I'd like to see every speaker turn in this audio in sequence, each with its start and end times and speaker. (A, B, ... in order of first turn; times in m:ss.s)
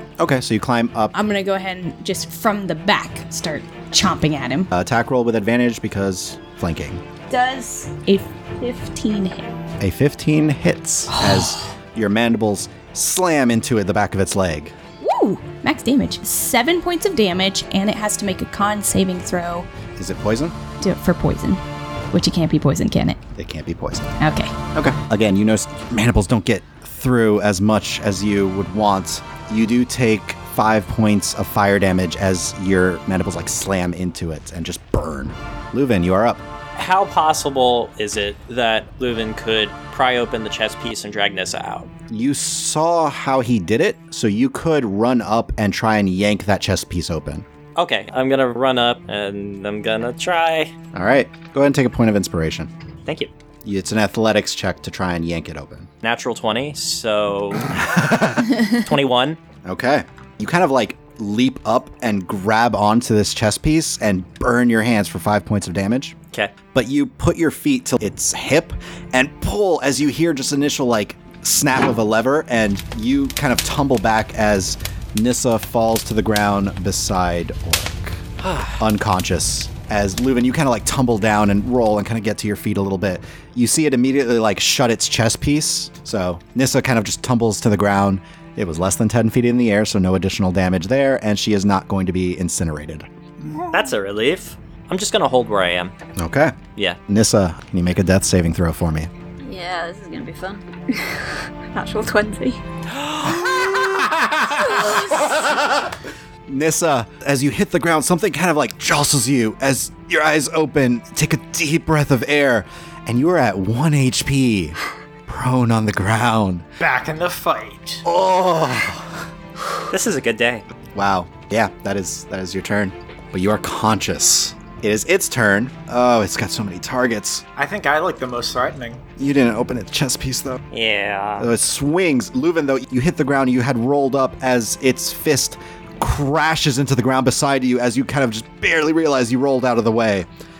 0:00.2-0:01.1 A
0:01.1-0:04.7 B
0:04.7-0:07.0 A
0:07.3-0:09.5 B
0:09.8-0:14.7 A
0:11.2-0:11.5 B
0:15.0-0:19.7 B
0:20.0-0:20.6 A
0:20.8-0:23.2 B
0:23.4-0:24.2 A
0:24.2-0:24.5 B
0:24.7-0:36.4 A
0:36.7-0:41.9 C
0:42.1-0:47.4 A
0:47.8-0:50.7 C
0:50.9-0:52.7 A
0:53.0-0:53.3 C
0:53.6-0:55.9 A
0:56.0-0:57.8 C
0:57.7-0:58.5 A
0:58.6-0:59.4 C
0:59.6-1:06.1 A
1:06.7-1:18.2 A
1:18.4-1:18.8 C
1:18.8-1:33.1 A
1:33.7-1:35.9 C
1:36.2-1:36.5 A
1:37.1-1:39.1 A
1:39.4-1:42.6 D
1:43.0-1:45.9 A
1:44.6-1:45.2 D
1:46.5-1:56.6 A
1:56.8-1:58.0 E
1:58.0-1:59.2 A
1:59.9-2:00.6 C
2:00.9-2:07.4 A
2:07.6-2:09.0 E
2:09.2-2:10.6 A
2:10.7-2:11.5 C
2:11.4-2:20.3 A